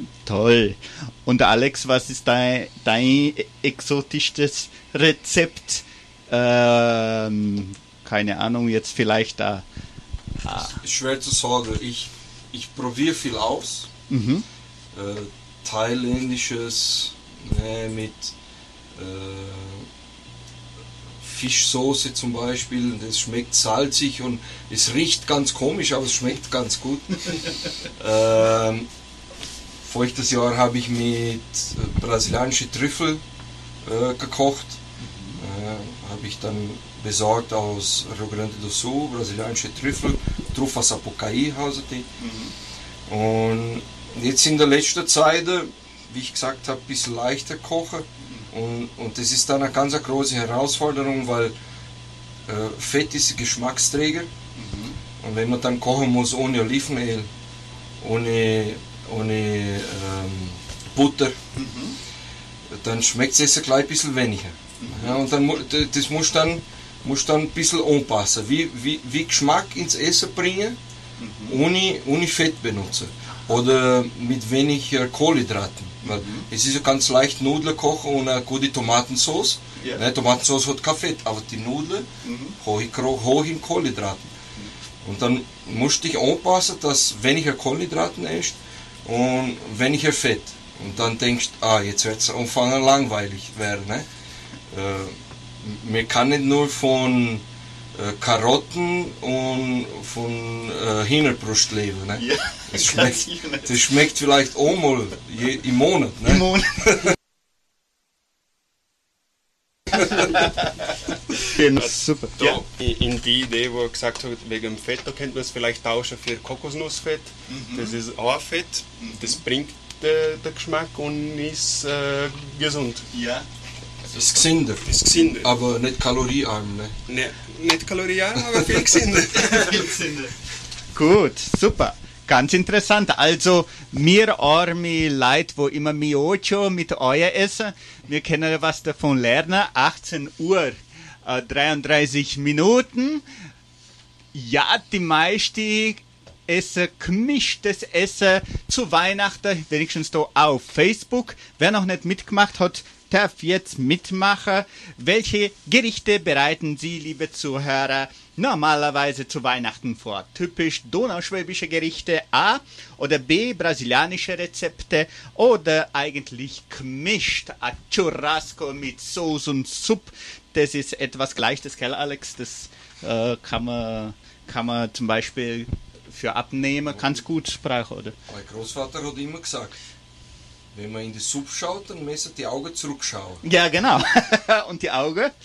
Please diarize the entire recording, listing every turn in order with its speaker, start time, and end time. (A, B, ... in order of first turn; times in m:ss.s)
0:00.3-0:09.6 A
0:10.4-0:10.8 A
0:10.7-0:13.9 B
0:14.1-0:14.4 A
0:14.9-0:18.4 B
0:18.9-0:19.9 B
0:21.2-0:28.9 B
0:29.8-0:33.2 B
0:33.8-0:34.8 B
0:35.0-0:35.4 A
0:35.4-0:42.1 B
0:42.2-0:42.5 A
0:43.1-0:51.5 B
0:48.2-0:48.5 A
0:52.5-0:54.3 B
0:54.6-0:55.0 A
0:55.2-0:57.3 B
0:58.0-1:01.4 B
1:01.6-1:02.0 A
1:02.7-1:10.8 B
1:04.8-1:05.2 A
1:11.2-1:11.6 A
1:11.5-1:24.3 B
1:16.0-1:16.5 A
1:22.2-1:22.6 A
1:25.0-1:34.1 B
1:34.7-1:47.0 B
1:42.2-1:43.8 A
1:46.3-1:47.0 A
1:51.4-1:52.6 A
1:51.8-2:03.1 C
1:57.5-1:57.9 A
1:59.0-1:59.4 A
2:03.1-2:03.5 A
2:04.1-2:07.0 B
2:04.8-2:05.5 C
2:07.1-2:09.9 C
2:09.3-2:10.3 A
2:10.9-2:23.2 A
2:24.3-2:58.2 A
2:58.3-2:59.8 B
3:00.7-3:03.4 B
3:03.4-3:05.3 A